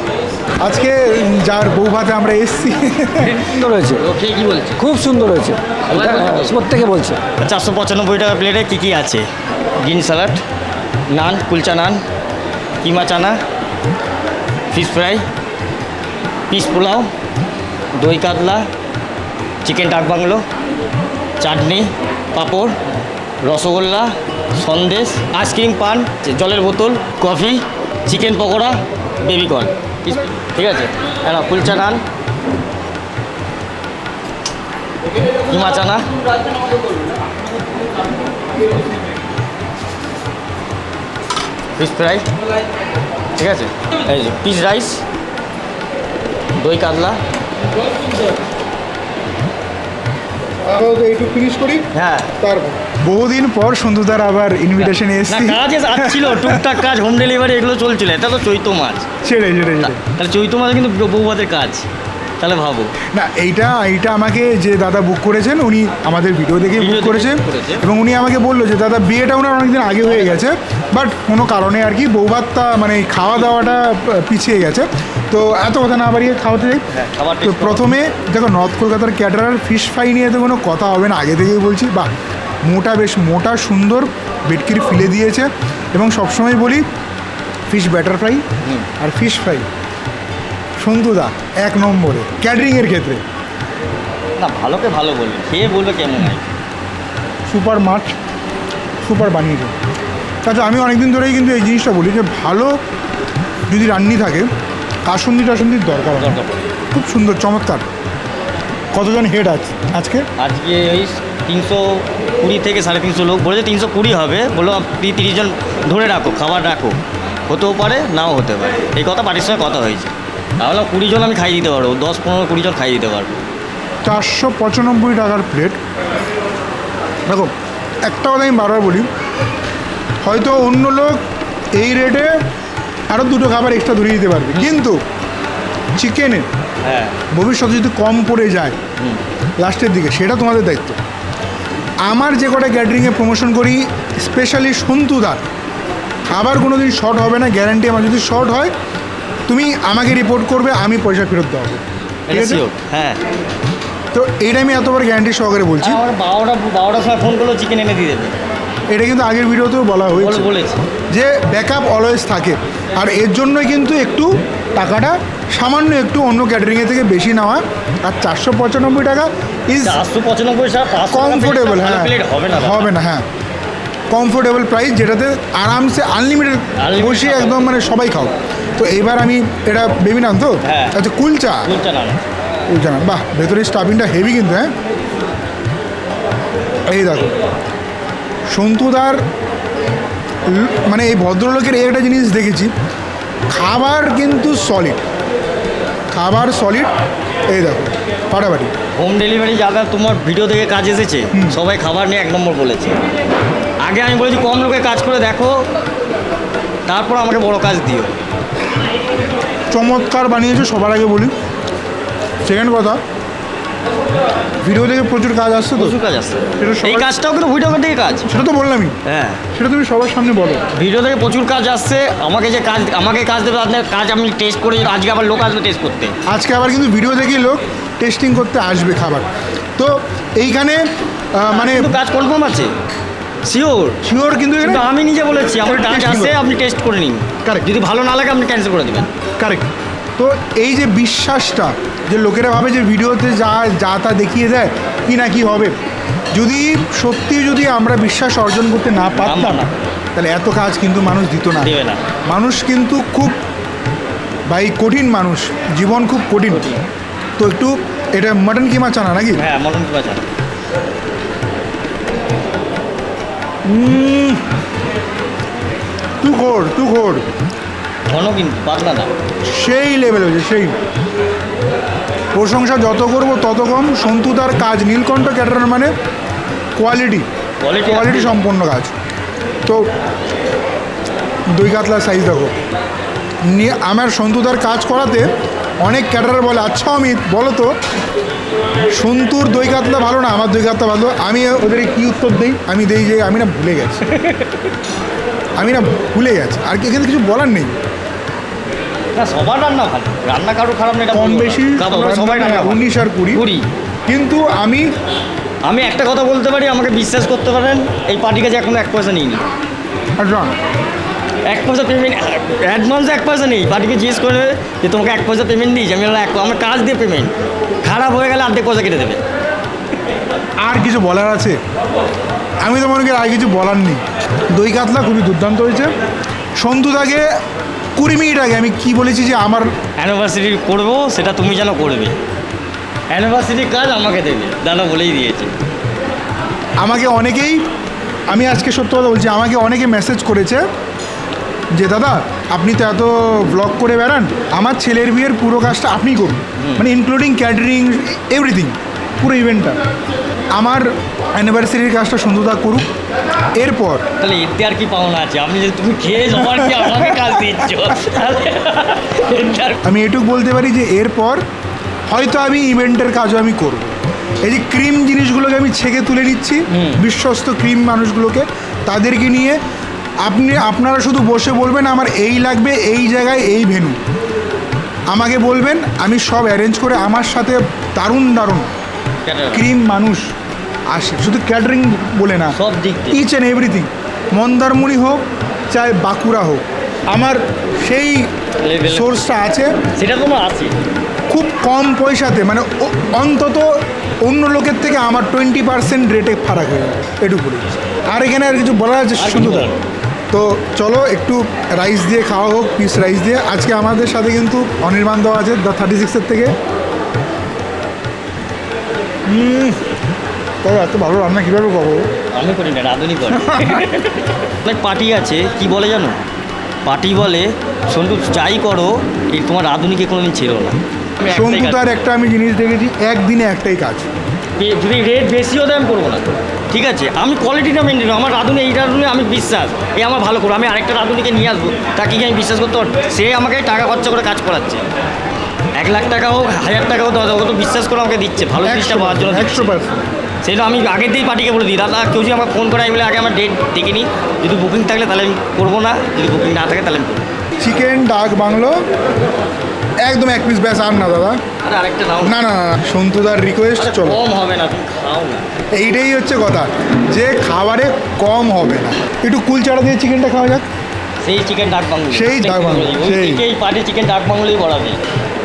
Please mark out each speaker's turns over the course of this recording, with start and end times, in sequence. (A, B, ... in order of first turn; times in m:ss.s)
0:00.6-0:03.5 A
0:03.3-0:04.0 B
0:04.0-0:04.8 C
0:04.8-0:07.2 B
0:05.9-0:06.6 C
0:07.4-0:09.3 C
0:09.8-0:10.4 C
0:11.1-0:12.0 C
0:12.8-0:13.4 C
0:14.7-0:15.2 C
0:16.5-0:17.1 C
0:18.0-0:18.6 C
0:19.6-0:20.4 C
0:21.4-0:22.8 C
0:23.4-0:32.0 C
0:35.5-0:36.0 C
0:41.8-0:42.3 C
0:43.4-0:45.0 C
0:46.6-0:47.2 C
0:50.7-0:51.8 A
0:51.9-0:52.3 C
0:52.4-0:56.6 A
0:54.8-0:59.1 C
0:59.2-1:00.0 A
0:59.8-1:01.9 C
1:02.4-1:02.9 C
1:03.1-1:16.8 A
1:06.8-1:07.8 C
1:10.1-1:10.5 C
1:16.9-1:17.9 C
1:17.4-1:22.1 A
1:22.7-1:26.8 A
1:27.7-1:28.4 A
1:29.0-1:29.7 A
1:30.8-1:33.2 A
1:34.4-1:36.5 C
1:37.5-1:38.1 A
1:39.0-1:39.7 A
1:40.4-1:42.7 A
1:43.7-1:44.5 A
1:45.1-1:46.4 A
1:46.2-1:46.6 C
1:46.9-1:47.8 A
1:48.9-1:50.2 A
1:50.4-1:57.0 C
1:57.5-2:03.4 C
2:04.0-2:05.8 A
2:08.0-2:09.1 A
2:10.2-2:11.2 A
2:11.8-2:12.3 A
2:13.1-2:15.0 A
2:16.0-2:16.5 A
2:16.8-2:17.2 C
2:17.3-2:18.8 A
2:19.6-2:21.0 A
2:22.0-2:25.4 A
2:26.3-2:28.7 A
2:29.5-2:32.6 A
2:32.3-2:33.2 C
2:34.1-2:36.0 A
2:35.8-2:38.4 C
2:38.9-2:40.5 A
2:40.2-2:40.8 C
2:41.1-2:50.0 A
2:49.8-2:52.9 C
2:51.1-2:53.2 A
2:54.1-3:01.7 A
2:56.8-2:57.8 C
3:00.6-3:01.0 C
3:01.6-3:02.2 C
3:02.7-3:04.7 A
3:06.9-3:07.3 A
3:08.5-3:09.2 A
3:10.5-3:12.7 A
3:13.5-3:15.0 A
3:16.1-3:16.9 A
3:17.5-3:18.7 A
3:18.9-3:23.0 C
3:21.3-3:21.6 A
3:23.8-3:25.6 C
3:26.9-3:28.2 C
3:29.7-3:31.3 A
3:32.4-3:33.0 A
3:34.6-3:36.0 A
3:35.8-3:38.2 C
3:36.6-3:37.2 A
3:38.3-3:39.0 A
3:39.1-3:39.4 C
3:39.5-3:40.6 A
3:40.8-3:46.1 C
3:46.3-3:50.8 A
3:51.4-3:51.9 A
3:51.5-3:52.7 C
3:53.5-3:54.0 C
3:54.0-3:54.9 A
3:54.6-3:59.1 C
3:55.6-3:56.4 A
3:59.4-4:05.7 A
4:06.3-4:11.7 A
4:09.2-4:09.7 C
4:11.6-4:12.0 C
4:12.3-4:13.4 A
4:14.5-4:16.7 A
4:16.5-4:16.8 C
4:17.4-4:19.4 A
4:19.4-4:20.3 C
4:23.6-4:24.4 A
4:26.2-4:27.2 A
4:28.1-4:29.1 C
4:29.5-4:30.8 A
4:32.3-4:35.9 A
4:36.8-4:37.2 A
4:37.6-4:38.4 C
4:37.8-4:38.9 A
4:41.5-4:42.5 A
4:43.5-4:45.3 A
4:45.8-4:47.7 A
4:48.9-4:54.0 A
4:54.1-4:54.5 C
4:55.6-4:57.7 A
4:59.1-5:03.6 C
5:01.1-5:03.4 A
5:04.1-5:04.8 A
5:05.6-5:09.4 C
5:10.2-5:10.5 A
5:11.5-5:19.2 C
5:20.6-5:21.6 A
5:22.6-5:25.9 A
5:26.6-5:27.2 A
5:28.0-5:29.7 A
5:30.0-5:32.2 C
5:33.1-5:35.5 C
5:36.8-5:37.6 A
5:38.3-5:40.6 A
5:41.7-5:49.8 A
5:46.6-5:46.8 C
5:50.5-5:52.8 A
5:53.6-5:54.0 A
5:54.2-5:59.8 C
5:56.4-5:57.1 A
5:59.8-6:01.4 A
6:02.1-6:09.6 A
6:06.7-6:07.0 C
6:10.2-6:14.0 A
6:15.1-6:18.7 A
6:19.2-6:19.7 C
6:19.5-6:20.2 A
6:20.9-6:22.6 A
6:22.5-6:23.2 C
6:23.1-6:25.2 A
6:25.7-6:28.3 A
6:28.6-6:29.3 C
6:28.8-6:29.7 A
6:30.0-6:30.8 C
6:31.3-6:33.7 A
6:34.2-6:39.7 A
6:39.2-6:39.8 C
6:40.3-6:46.5 A
6:49.3-6:49.8 A
6:50.6-6:52.0 A
6:52.3-6:56.2 C
6:53.4-6:53.8 A
6:56.8-7:01.9 C
7:01.3-7:04.1 A
7:04.6-7:14.8 C
7:15.8-7:19.7 C
7:18.6-7:20.0 A
7:20.4-7:27.2 C
7:27.6-7:28.8 A
7:30.0-7:31.4 A
7:31.6-7:32.4 C
7:32.2-7:34.2 A
7:33.8-7:35.4 C
7:35.7-7:40.6 A
7:41.2-7:45.0 C
7:42.1-7:43.4 A